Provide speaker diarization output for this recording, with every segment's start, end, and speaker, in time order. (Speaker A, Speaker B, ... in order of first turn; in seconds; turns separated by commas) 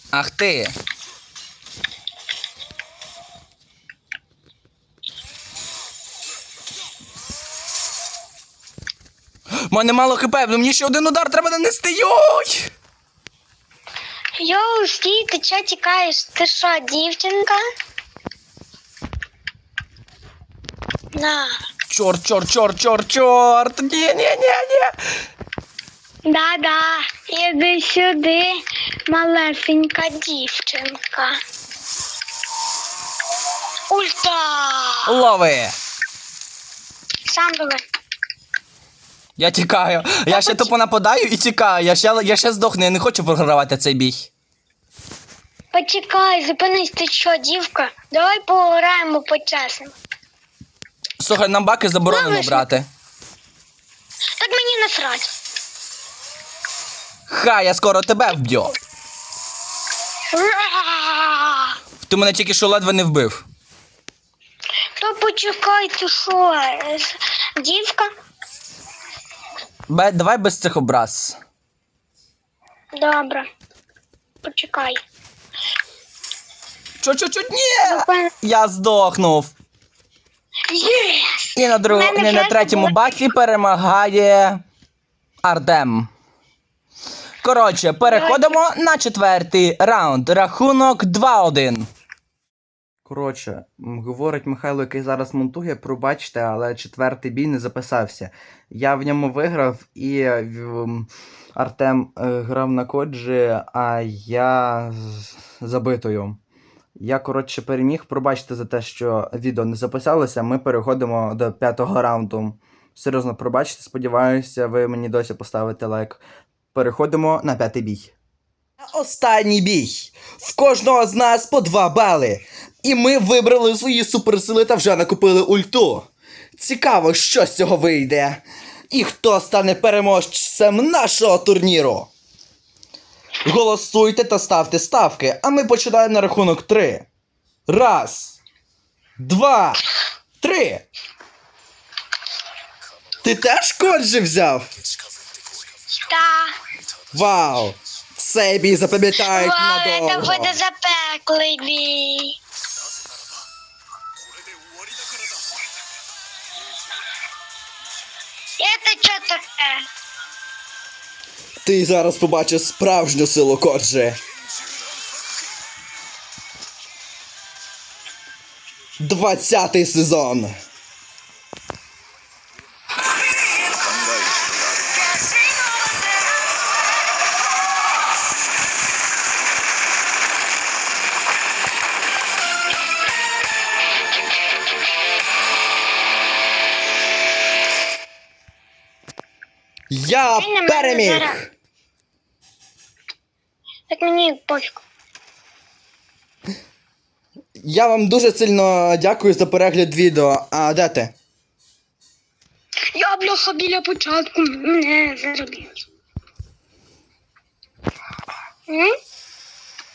Speaker A: 0.1-0.7, Speaker A: 9.7-12.7, Speaker B: 14.4-17.6, Speaker B: 21.1-21.5, Speaker A: 21.9-24.9, Speaker B: 26.2-31.4, Speaker B: 33.9-35.1, Speaker A: 35.0-35.8, Speaker B: 37.3-37.8, Speaker A: 39.4-44.3, Speaker B: 40.3-40.7, Speaker B: 45.7-49.9, Speaker A: 51.2-52.9, Speaker B: 52.1-52.7, Speaker B: 54.4-55.3, Speaker A: 57.3-58.7, Speaker B: 60.3-61.7, Speaker A: 62.0-63.4, Speaker B: 65.0-68.1, Speaker A: 69.9-71.4, Speaker B: 73.0-73.5, Speaker B: 74.4-75.0, Speaker A: 77.0-79.5, Speaker B: 77.8-78.3, Speaker B: 80.7-83.2, Speaker A: 81.5-84.6, Speaker A: 85.4-86.1, Speaker A: 87.4-91.9, Speaker B: 88.0-88.6, Speaker A: 93.0-106.4, Speaker A: 107.0-116.2, Speaker A: 116.7-118.1, Speaker A: 118.8-132.1, Speaker A: 133.4-137.1, Speaker A: 137.7-138.4, Speaker A: 139.2-139.8, Speaker A: 140.4-140.8, Speaker A: 143.2-144.7, Speaker B: 146.0-146.5, Speaker A: 147.1-150.6, Speaker B: 149.2-152.4, Speaker B: 158.6-159.8, Speaker A: 161.6-164.2, Speaker A: 169.0-170.5, Speaker A: 189.9-191.5, Speaker B: 190.4-191.4, Speaker B: 193.9-194.8, Speaker A: 197.6-201.1, Speaker B: 202.9-205.8